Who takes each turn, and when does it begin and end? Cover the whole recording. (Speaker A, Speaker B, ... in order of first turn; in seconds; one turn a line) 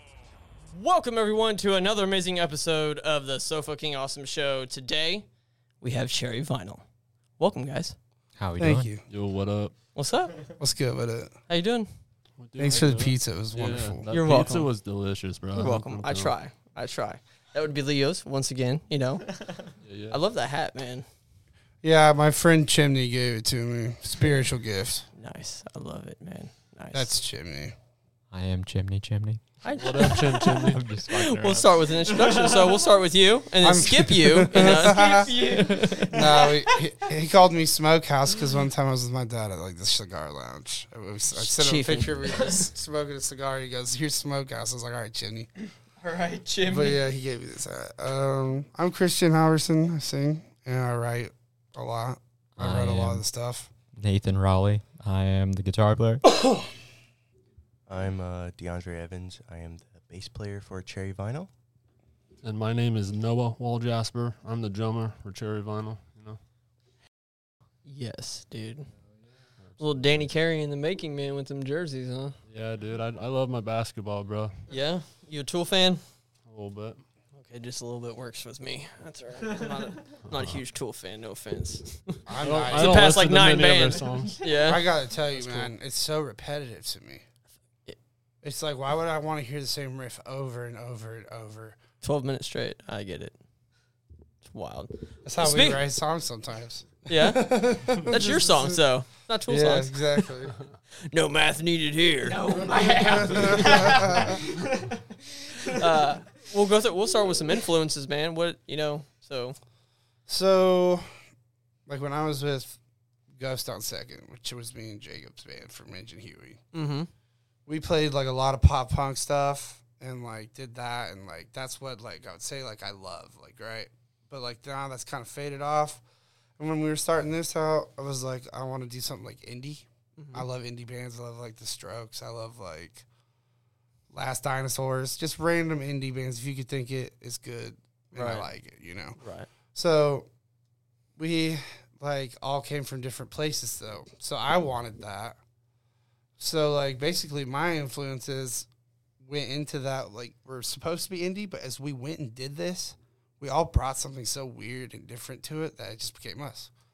Speaker A: 0.7-5.2
Speaker A: 5.8-6.8
Speaker A: 7.4-8.0
Speaker B: 8.4-8.9
Speaker C: 8.6-9.0
Speaker D: 9.1-9.7
Speaker A: 9.9-10.5
Speaker C: 10.6-11.3
Speaker A: 11.5-11.9
Speaker D: 12.4-16.3
Speaker C: 12.6-14.1
Speaker A: 14.1-14.7
Speaker A: 15.5-21.0
Speaker D: 19.8-20.2
Speaker C: 21.8-25.1
Speaker A: 25.1-27.1
Speaker C: 26.9-27.7
Speaker B: 28.3-29.4
Speaker A: 29.6-36.4
Speaker D: 29.7-30.8
Speaker B: 29.9-32.9
Speaker C: 33.6-45.5
Speaker B: 34.5-36.3
Speaker A: 41.3-42.7
Speaker A: 46.0-47.0
Speaker C: 46.6-53.7
Speaker B: 52.6-53.2
Speaker B: 54.0-56.2
Speaker C: 56.3-56.7
Speaker E: 57.9-61.5
Speaker D: 62.4-66.4
Speaker A: 67.8-68.9
Speaker D: 69.6-70.2
Speaker A: 69.8-72.3
Speaker D: 72.5-74.6
Speaker A: 74.7-76.0
Speaker D: 76.5-77.0
Speaker A: 77.3-85.7
Speaker B: 79.5-79.8
Speaker D: 80.3-80.6
Speaker C: 82.2-83.1
Speaker D: 82.4-84.4
Speaker B: 84.2-84.6
Speaker C: 84.6-87.2
Speaker C: 88.4-91.8
Speaker A: 92.0-93.3
Speaker A: 94.4-95.8
Speaker C: 95.2-98.8
Speaker A: 97.1-100.2
Speaker C: 99.5-100.6
Speaker A: 101.0-104.2
Speaker B: 102.2-105.9
Speaker C: 102.9-104.4
Speaker A: 105.6-109.5
Speaker C: 110.3-111.1
Speaker C: 111.8-112.8
Speaker C: 113.3-116.6
Speaker A: 116.7-117.1
Speaker C: 117.7-126.0
Speaker C: 126.6-133.0
Speaker A: 130.2-130.4
Speaker C: 134.1-139.2
Speaker A: 138.1-138.5
Speaker A: 139.2-139.5
Speaker C: 139.7-140.3
Speaker C: 141.2-145.4
Speaker C: 146.4-148.7
Speaker C: 149.2-156.7